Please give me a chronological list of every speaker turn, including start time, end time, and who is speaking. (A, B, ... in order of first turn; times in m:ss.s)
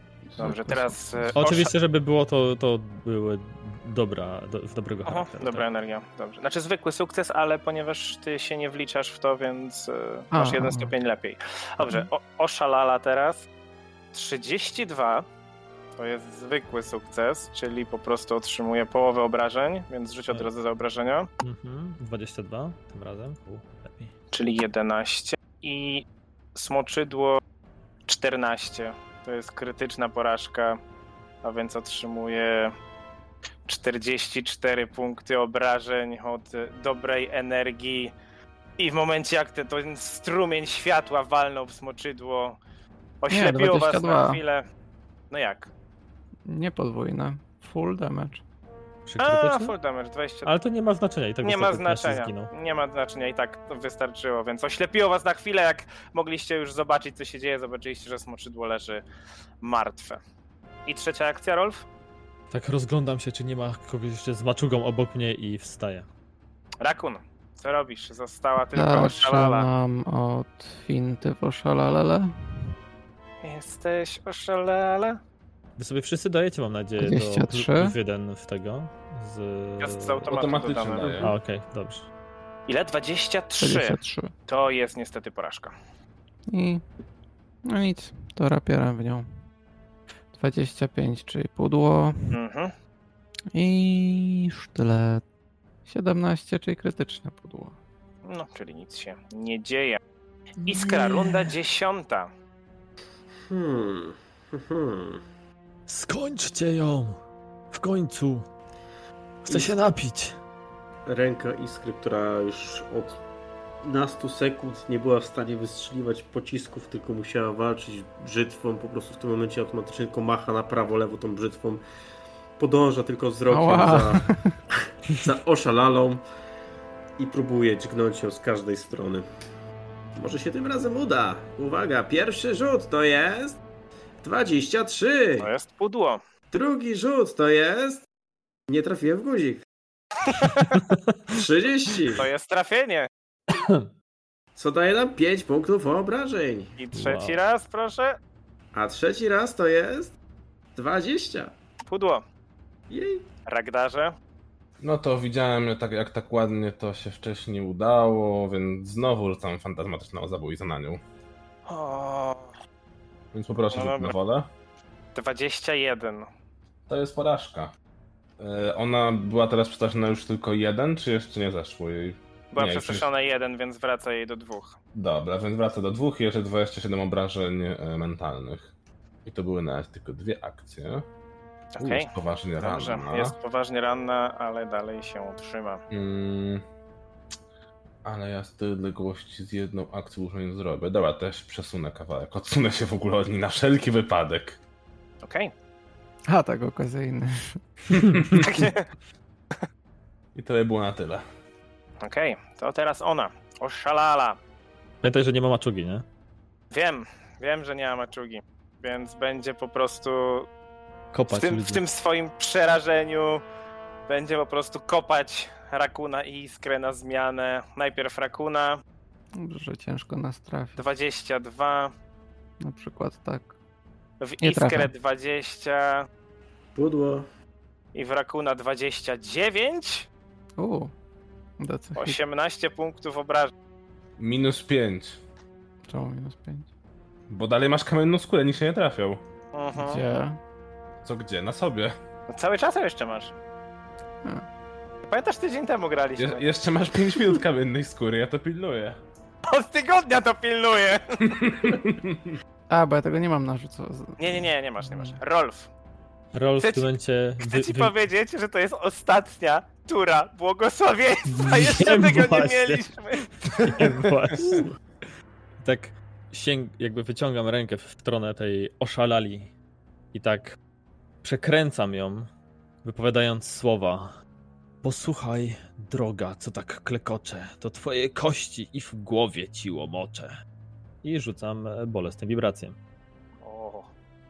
0:00.3-0:01.4 A
0:00.4-0:01.7 B
0:01.3-0:05.6 C
0:05.1-0:13.5 B
0:10.3-0:10.9 A
0:14.1-0:15.2 B
0:16.0-0:21.3 B
0:21.4-0:24.1 C
0:24.3-0:27.4 B
0:28.1-0:30.8 B
0:31.4-0:32.7 B
0:33.6-0:38.1 B
0:38.8-0:42.6 B
0:43.2-0:44.6 B
0:43.3-0:44.4 A
0:45.3-0:45.7 B
0:46.5-0:48.4 A
0:49.1-0:49.7 C
0:49.2-0:50.5 B
0:50.4-0:52.5 C
0:51.4-0:59.0 B
0:59.6-1:00.2 B
1:00.8-1:01.8 B
1:02.5-1:06.1 C
1:06.8-1:09.7 B
1:08.7-1:12.3 A
1:13.4-1:15.2 B
1:15.8-1:20.2 C
1:17.0-1:17.9 A
1:19.8-1:21.3 B
1:20.3-1:21.3 D
1:21.2-1:22.1 C
1:22.7-1:25.7 B
1:23.6-1:24.3 A
1:26.5-1:26.8 A
1:27.7-1:29.3 A
1:30.3-1:32.3 A
1:32.3-1:32.7 B
1:33.6-1:35.2 A
1:35.8-1:37.8 A
1:38.2-1:40.0 B
1:40.6-1:41.5 C
1:40.6-1:42.3 B
1:43.5-1:45.2 E
1:45.9-1:47.2 C
1:47.7-1:48.4 C
1:49.5-1:49.7 E
1:49.5-1:50.4 C
1:51.1-1:53.2 E
1:53.8-2:01.8 E
2:02.6-2:06.2 E
2:03.5-2:04.6 A
2:07.2-2:09.2 E
2:10.2-2:13.6 E
2:14.2-2:15.5 E
2:15.4-2:16.2 B
2:16.5-2:18.0 E
2:18.7-2:19.6 E
2:20.2-2:20.8 B
2:21.3-2:22.3 E
2:22.2-2:23.1 B
2:23.5-2:23.9 C
2:24.6-2:26.8 E
2:26.8-2:28.2 B
2:26.9-2:27.4 C
2:28.7-2:30.1 E
2:30.7-2:31.5 E
2:31.9-2:32.2 B
2:32.9-2:33.3 E
2:33.5-2:34.2 B
2:34.8-2:41.0 D
2:41.7-2:42.5 B
2:43.3-2:44.5 D
2:43.7-2:44.1 B
2:45.1-2:46.3 B
2:46.9-2:47.7 D
2:48.4-2:53.1 D
2:52.5-2:54.8 B
2:54.9-2:58.7 D
2:59.2-3:01.0 D
3:01.7-3:05.8 B
3:01.8-3:03.4 D
3:05.9-3:06.6 D
3:08.0-3:14.6 D
3:15.2-3:15.5 B
3:16.3-3:18.4 A
3:18.1-3:18.4 D
3:18.4-3:18.9 B
3:20.4-3:21.2 D
3:22.0-3:24.4 B
3:25.0-3:26.0 C
3:26.7-3:30.5 B
3:31.1-3:31.8 C
3:31.3-3:33.4 B
3:34.1-3:38.8 B
3:39.4-3:40.8 A
3:40.8-3:41.9 B
3:42.6-3:43.5 A
3:44.2-3:46.1 B
3:44.4-3:44.9 A
3:46.7-3:47.3 E
3:47.9-3:50.1 B
3:50.6-3:50.9 A
3:51.6-3:52.2 A
3:52.0-3:53.5 B
3:54.2-3:55.2 D
3:55.9-3:56.7 A
3:57.3-3:59.2 D
3:59.5-4:00.0 B
3:59.8-4:00.4 A
4:01.0-4:01.9 D
4:02.3-4:03.3 B
4:05.1-4:06.4 B
4:06.2-4:09.0 D
4:09.5-4:11.3 B
4:11.3-4:12.3 D
4:12.7-4:15.2 A
4:14.2-4:15.7 B
4:16.3-4:17.9 C
4:16.6-4:16.9 B
4:17.4-4:24.6 B
4:21.3-4:22.8 C
4:23.4-4:24.7 C
4:25.6-4:29.5 C
4:30.1-4:30.6 C
4:31.2-4:32.3 C
4:32.8-4:34.1 C
4:34.8-4:40.4 C
4:41.0-4:42.8 C
4:43.4-4:43.9 B